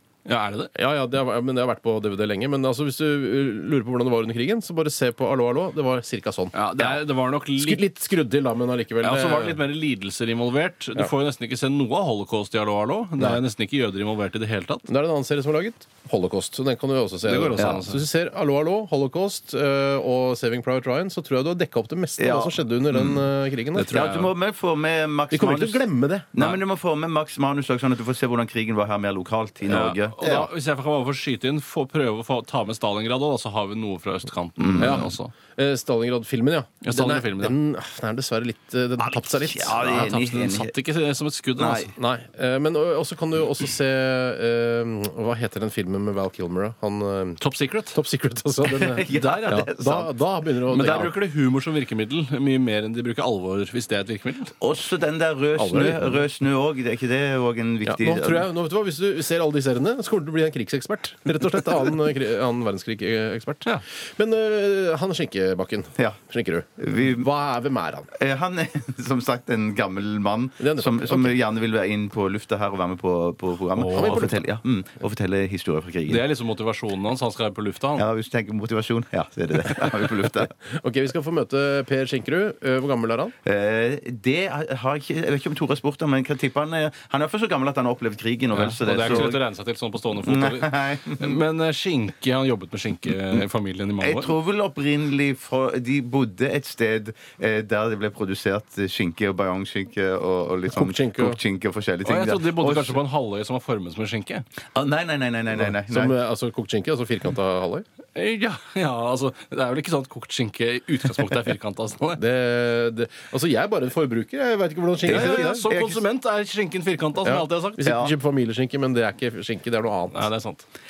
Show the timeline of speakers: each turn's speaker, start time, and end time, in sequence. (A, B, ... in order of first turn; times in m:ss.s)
0:00.3-0:00.7 A
0:00.8-0:07.0 B
0:06.5-0:07.9 A
0:07.6-0:09.6 B
0:09.0-0:14.9 A
0:14.9-0:24.0 B
0:17.3-0:18.0 A
0:22.2-0:23.2 C
0:23.8-0:24.3 A
0:23.9-0:30.5 C
0:25.3-0:26.3 B
0:29.7-0:35.3 A
0:34.6-0:35.0 C
0:34.8-0:40.2 B
0:36.8-0:37.5 A
0:39.0-0:40.7 C
0:40.1-0:41.9 A
0:41.6-0:41.9 C
0:42.0-0:47.4 B
0:47.4-0:48.0 A
0:47.9-0:51.1 B
0:48.7-0:50.1 C
0:49.1-0:49.5 A
0:50.7-0:54.5 A
0:54.6-0:58.5 C
0:55.6-0:56.2 B
0:57.8-1:08.1 B
1:06.8-1:07.3 C
1:08.2-1:16.3 C
1:10.6-1:11.4 B
1:13.8-1:14.2 A
1:13.9-1:14.5 B
1:16.1-1:18.0 A
1:18.0-1:20.5 C
1:20.7-1:23.4 B
1:23.4-1:29.4 C
1:28.6-1:34.3 A
1:30.2-1:31.4 C
1:34.0-1:43.0 C
1:40.7-1:41.4 B
1:42.0-1:44.5 A
1:44.7-1:46.2 C
1:45.5-1:47.8 B
1:48.2-1:52.2 A
1:52.2-1:55.7 B
1:55.1-1:56.0 C
1:55.1-1:57.8 A
1:57.2-2:00.3 B
1:57.8-1:58.2 C
2:00.1-2:00.7 A